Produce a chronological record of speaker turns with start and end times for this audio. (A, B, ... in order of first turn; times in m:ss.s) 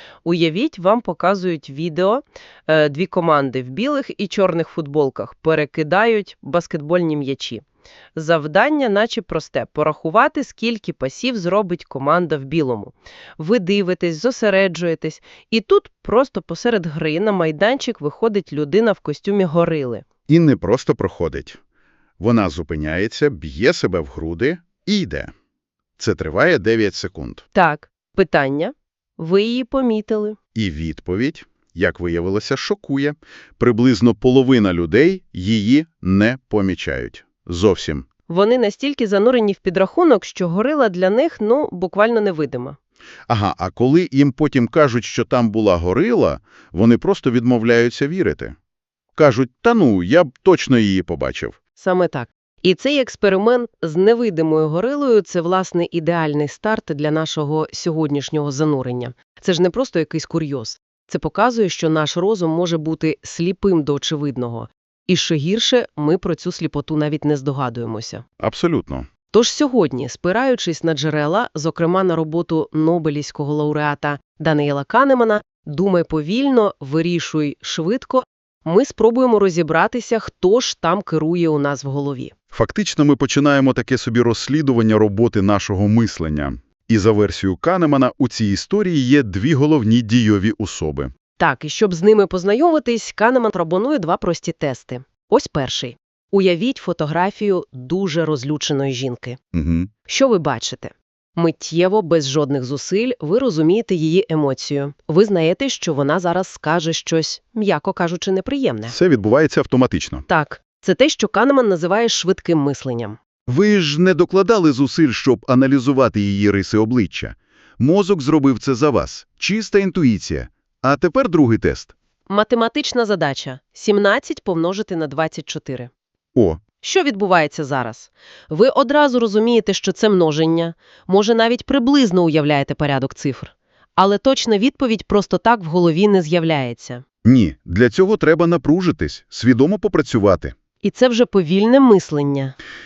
0:00.2-0:07.6 A
0:08.2-0:20.0 A
0:20.3-0:21.6 B
0:22.2-0:25.3 B
0:26.0-0:27.4 B
0:27.5-0:30.4 A
0:30.6-0:38.1 B
0:38.3-0:42.8 A
0:43.3-0:48.6 B
0:49.2-0:51.6 B
0:51.8-1:08.2 A
1:08.4-1:09.1 B
1:09.3-1:22.3 A
1:22.5-1:31.1 B
1:31.4-1:39.4 A
1:39.5-1:39.9 B
1:40.1-1:49.0 A
1:48.9-1:50.2 B
1:50.3-1:53.2 A
1:53.5-2:01.9 B
2:02.3-2:05.9 A
2:06.4-2:06.6 B
2:06.8-2:17.0 A
2:17.2-2:20.5 B
2:20.8-2:22.6 A